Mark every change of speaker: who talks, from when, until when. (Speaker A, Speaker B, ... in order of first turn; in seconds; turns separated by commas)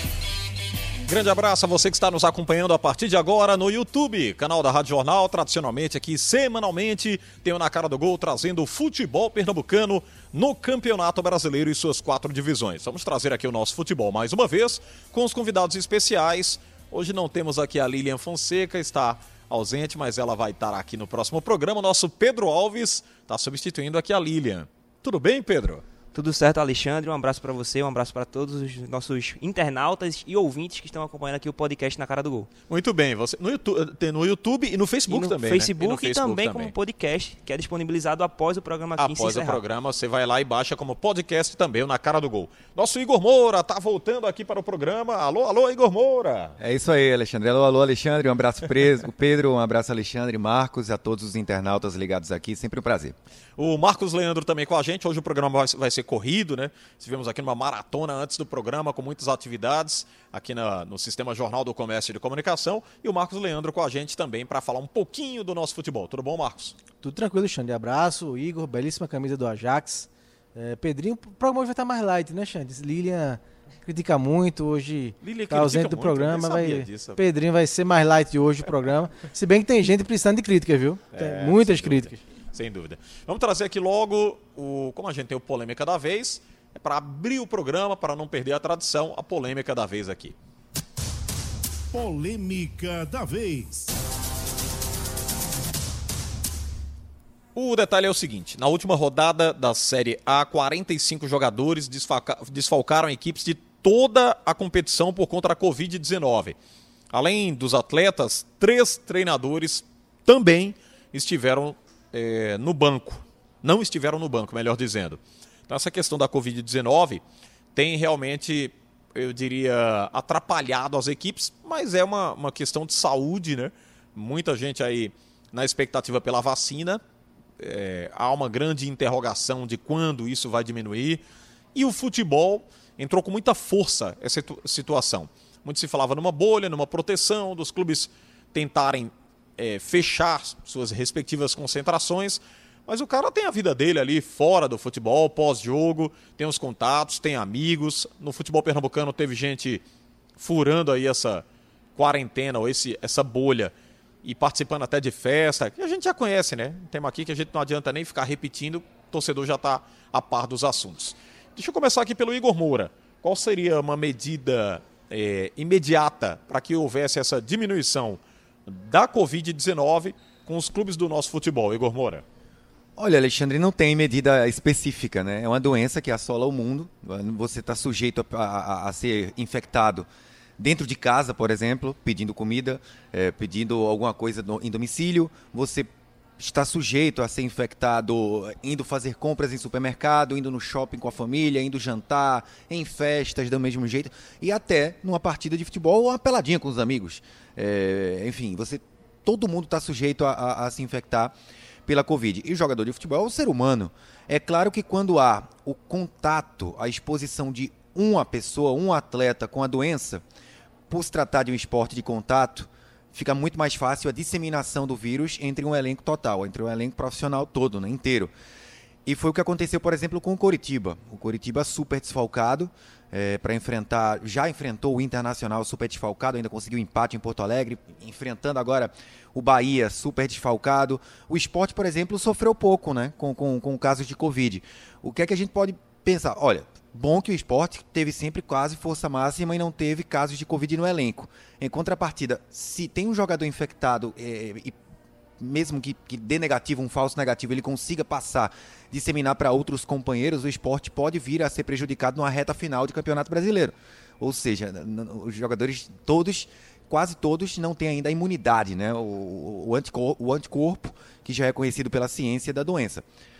Speaker A: 1.1-25.8, Speaker B: 26.1-32.5, Speaker A: 32.7-36.7, Speaker B: 35.1-39.6, Speaker A: 39.0-46.5, Speaker C: 46.6-53.1, Speaker A: 53.6-66.7, Speaker D: 67.0-82.2, Speaker A: 75.2-77.2, Speaker A: 81.1-90.3, Speaker E: 91.9-93.8, Speaker A: 97.5-106.5, Speaker A: 107.1-117.2, Speaker A: 117.7-127.0, Speaker A: 127.6-131.2, Speaker A: 131.7-149.8, Speaker A: 150.4-151.4, Speaker A: 151.9-172.2, Speaker C: 173.0-210.2, Speaker C: 210.9-218.3, Speaker C: 219.1-244.8, Speaker C: 245.4-263.0